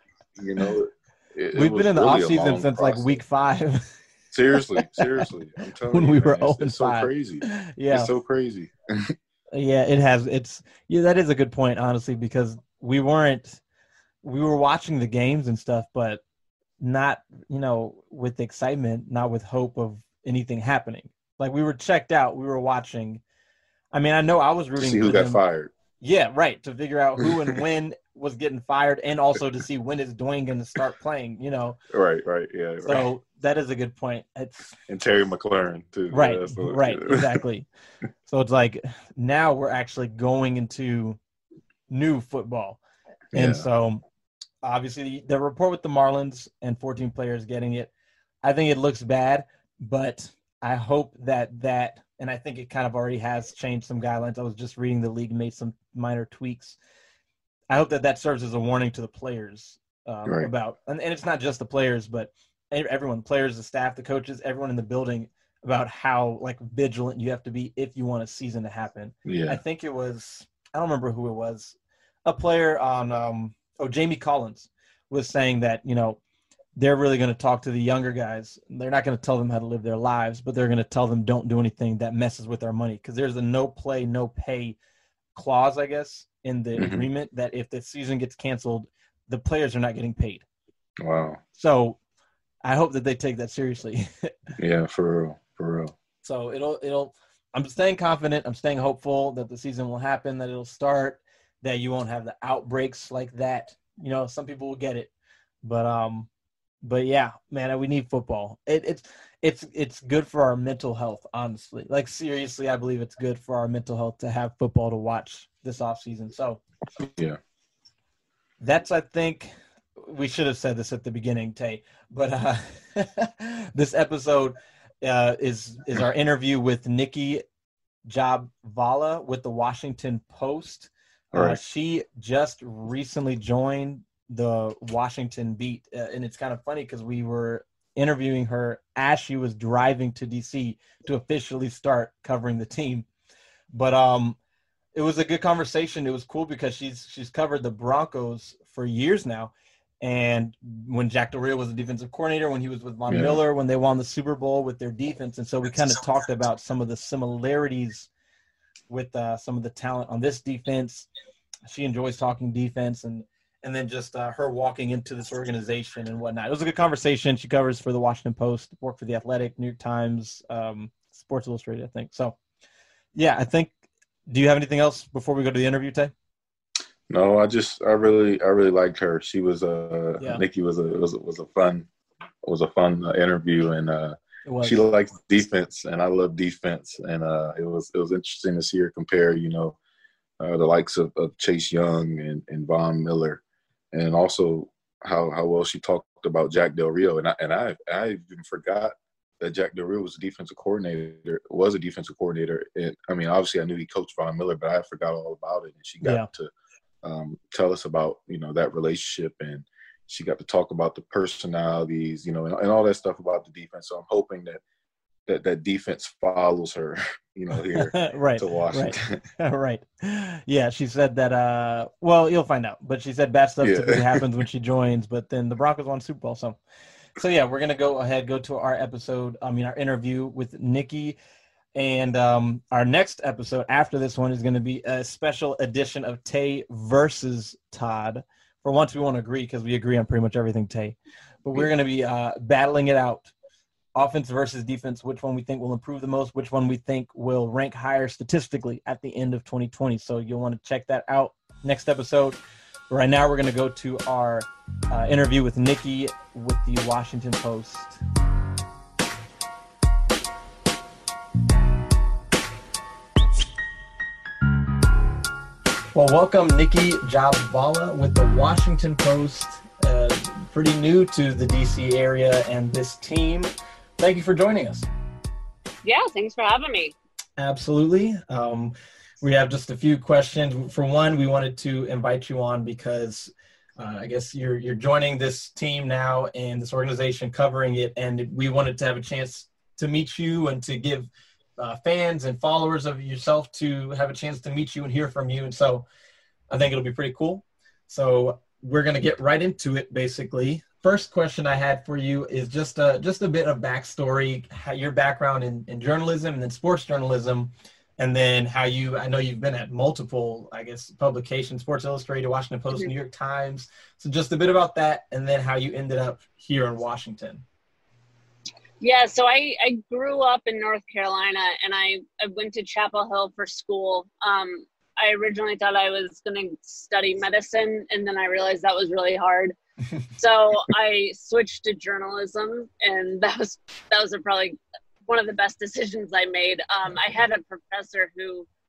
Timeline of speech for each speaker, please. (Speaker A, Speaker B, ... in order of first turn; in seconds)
Speaker A: 0.4-3.2, 4.3-9.1, 24.8-25.7, 31.9-33.1, 34.9-37.4, 43.3-43.6, 69.2-69.6, 86.8-87.1, 91.0-91.4, 94.6-95.9, 117.0-117.4, 131.3-131.6, 153.1-153.4, 177.1-181.8, 182.4-189.8, 190.4-193.4, 193.9-198.9, 199.4-206.5, 207.0-214.6, 215.3-219.2, 223.6-224.0
Speaker B: 1.5-3.9, 4.5-5.3, 5.9-8.1, 9.5-13.6, 14.2-16.2, 16.8-23.2, 23.9-25.4, 26.0-31.8, 32.8-34.7, 36.1-37.7, 38.3-41.2, 41.9-42.8, 43.3-44.0, 44.6-47.9, 48.4-56.8, 57.7-76.2, 76.8-84.8, 85.3-90.4, 91.5-92.0, 92.6-94.3, 96.2-105.1, 105.6-106.3, 106.8-116.6, 118.6-127.4, 128.1-143.1, 143.7-144.4, 144.9-158.1, 158.9-161.1, 161.7-172.3, 173.1-173.7, 174.3-176.1, 180.2-180.4, 184.4-184.8, 206.0-206.3, 217.6-226.6, 227.2-231.2, 231.7-243.3, 243.9-252.4, 252.9-258.0, 265.9-274.9, 277.4-295.9, 296.5-317.4
Speaker C: 275.8-276.9, 318.8-329.6, 330.2-338.5